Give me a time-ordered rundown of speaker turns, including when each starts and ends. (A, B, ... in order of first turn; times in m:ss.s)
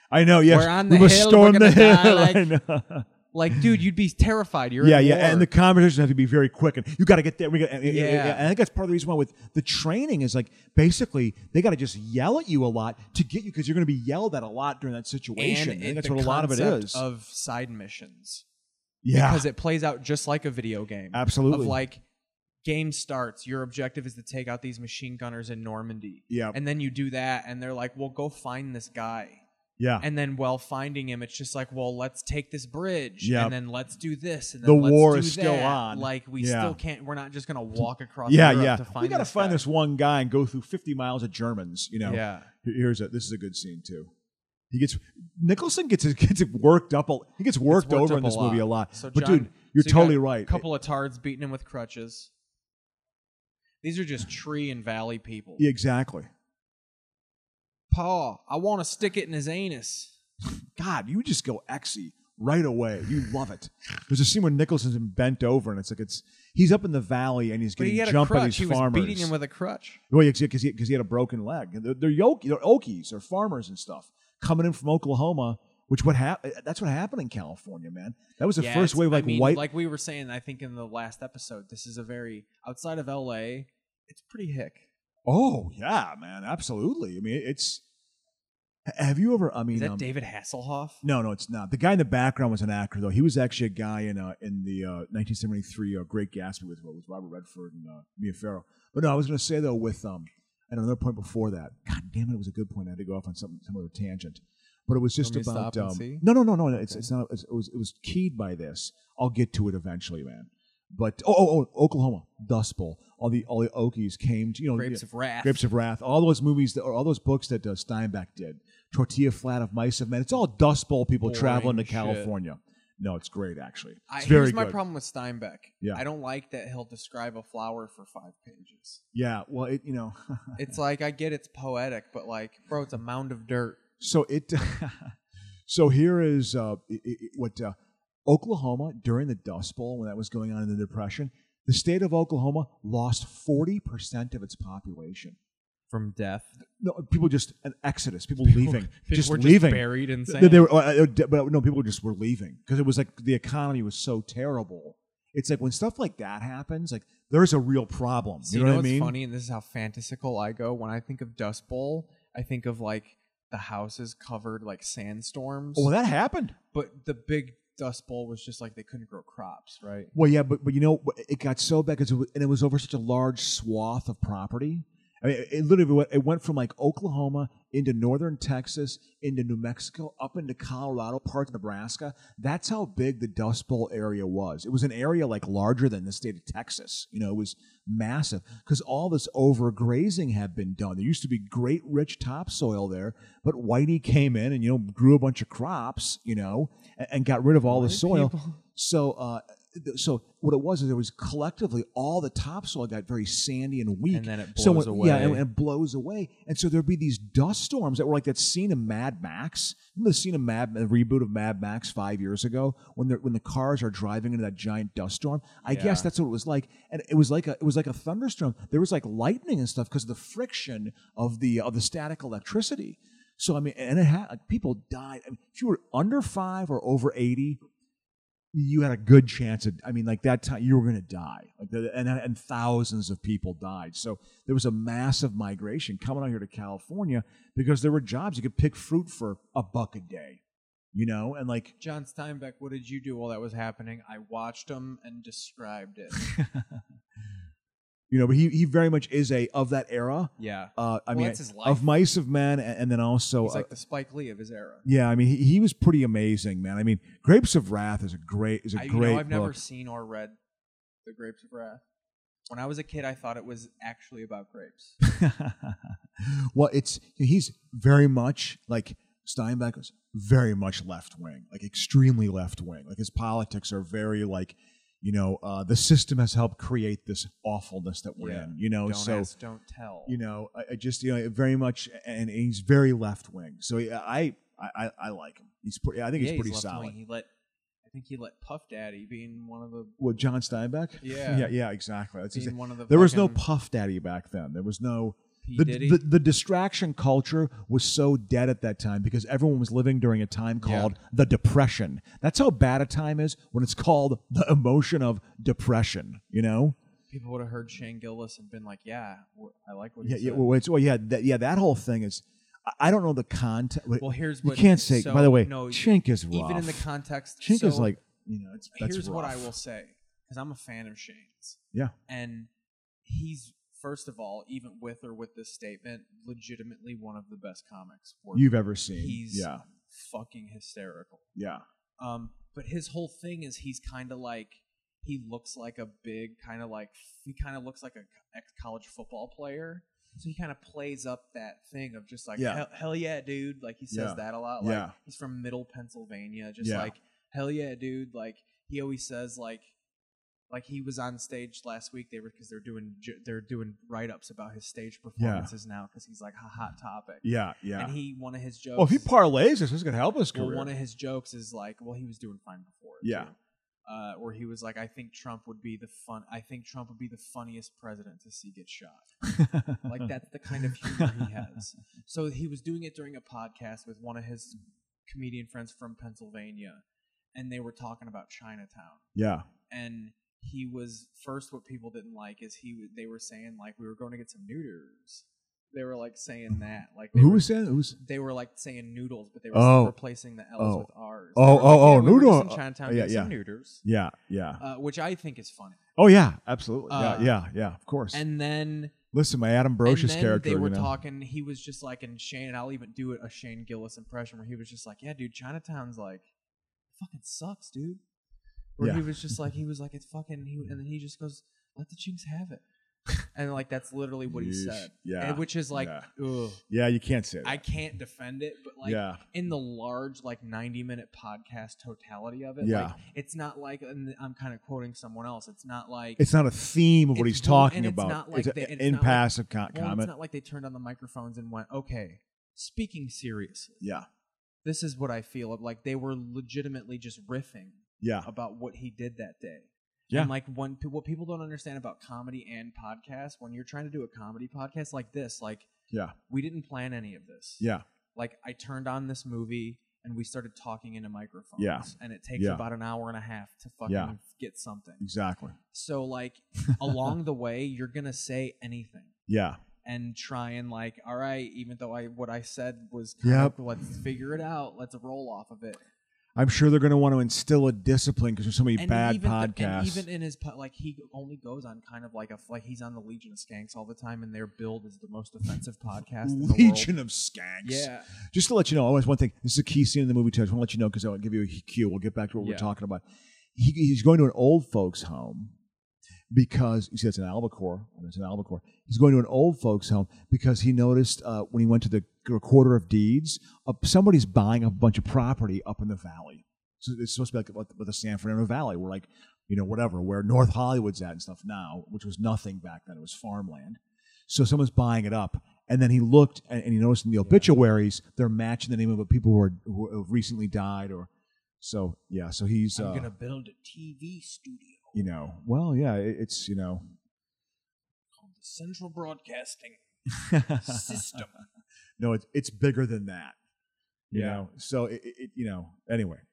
0:00.1-0:03.7 A
0:00.5-0:02.5 B
0:03.3-0:05.5 B
0:04.8-0:17.0 A
0:07.8-0:08.5 B
0:15.4-0:18.4 B
0:19.0-0:19.5 A
0:19.1-0:22.0 B
0:21.1-0:21.8 A
0:22.6-0:29.4 B
0:26.3-0:26.6 A
0:29.8-0:30.0 A
0:30.0-0:39.6 B
0:33.2-0:33.6 A
0:34.6-0:36.8 A
0:38.3-0:44.1 A
0:42.0-0:42.5 B
0:44.7-0:50.6 A
0:47.7-0:52.3 B
0:53.8-0:55.7 B
0:55.6-0:56.3 A
0:57.9-1:00.2 B
1:00.8-1:09.3 A
1:07.8-1:10.0 B
1:10.1-1:19.7 A
1:18.6-1:24.9 B
1:25.3-1:27.8 A
1:28.9-1:30.1 A
1:29.7-1:31.0 B
1:31.0-2:04.8 A
1:45.2-1:46.3 B
1:46.8-1:47.1 B
1:54.7-1:55.7 B
2:01.2-2:02.3 B
2:04.1-2:09.0 B
2:09.1-2:10.6 A
2:10.6-2:13.8 B
2:14.0-2:15.2 A
2:15.7-2:17.8 A
2:18.3-2:25.4 A
2:25.9-2:26.5 B
2:26.8-2:39.2 A
2:28.4-2:30.7 B
2:38.4-2:45.9 B
2:45.8-2:46.6 A
2:46.7-2:50.1 B
2:50.1-3:47.6 A
3:17.6-3:18.6 B
3:24.1-3:25.5 B
3:35.6-3:36.1 B
3:48.5-4:00.4 A
4:00.9-4:01.8 A
4:01.8-4:06.3 B
4:06.2-4:06.8 A
4:08.1-4:13.7 A
4:10.4-4:11.9 B
4:13.4-4:14.9 B
4:14.8-4:19.6 A
4:18.8-4:20.4 B
4:21.0-4:21.8 B
4:22.5-4:25.0 B
4:25.0-4:39.3 A
4:38.2-4:40.2 B
4:40.1-4:47.0 A
4:46.2-4:47.3 B
4:47.8-4:50.1 B
4:50.0-5:06.8 A
4:51.0-4:51.6 B
4:52.3-4:53.4 B
4:55.4-4:56.0 B
5:00.6-5:00.9 B
5:07.1-5:10.5 B
5:10.0-5:16.9 A
5:14.0-5:17.9 B
5:17.4-5:19.5 A
5:18.7-5:22.5 B
5:23.0-5:31.3 B
5:28.3-5:29.6 A
5:31.4-5:31.6 A
5:32.0-5:49.7 B
5:42.4-5:42.6 A
5:43.9-5:45.0 A
5:46.6-5:46.9 A
5:50.5-5:59.1 B
5:55.2-5:55.5 A
5:57.2-5:58.0 A
5:58.8-6:00.7 A
6:00.3-6:09.1 B
6:03.0-6:03.3 A
6:09.2-6:10.0 A
6:09.8-6:16.8 B
6:10.7-6:11.3 A
6:17.3-6:19.1 B
6:19.2-6:19.5 A
6:19.7-6:33.8 B
6:27.1-6:28.0 A
6:29.5-6:30.0 A
6:30.6-6:34.6 A
6:34.6-6:35.8 B
6:36.0-6:38.2 A
6:36.9-6:37.3 B
6:38.1-6:38.9 B
6:39.1-6:40.9 A
6:39.8-6:46.3 B
6:46.9-6:48.0 B
6:48.8-6:52.6 B
6:48.8-6:49.1 A
6:53.3-6:56.6 B
6:54.3-6:56.1 A
6:56.7-6:57.6 A
6:57.4-7:06.2 B
6:58.8-6:59.2 A
7:02.6-7:03.0 A
7:06.2-7:10.1 A
7:07.1-7:13.8 B
7:13.8-7:14.1 A
7:14.6-7:25.7 B
7:18.0-7:18.3 A
7:25.9-7:26.2 A
7:26.3-7:35.0 B
7:31.6-7:32.6 A
7:33.9-7:34.2 A
7:35.0-7:35.6 A
7:35.7-7:39.1 B
7:39.3-7:39.6 A
7:39.8-7:45.8 B
7:43.2-7:43.6 A
7:46.4-7:50.1 A
7:48.8-7:56.9 B
7:56.2-8:03.0 A
7:57.6-7:58.1 B
8:02.4-8:02.7 B
8:03.6-8:05.6 A
8:06.3-8:33.1 A
8:27.2-8:27.5 B
8:32.8-8:35.1 B
8:34.9-8:36.8 A
8:38.2-8:41.4 B
8:40.2-8:41.2 A
8:42.0-8:43.4 A
8:44.1-8:44.4 B
8:44.1-8:46.2 A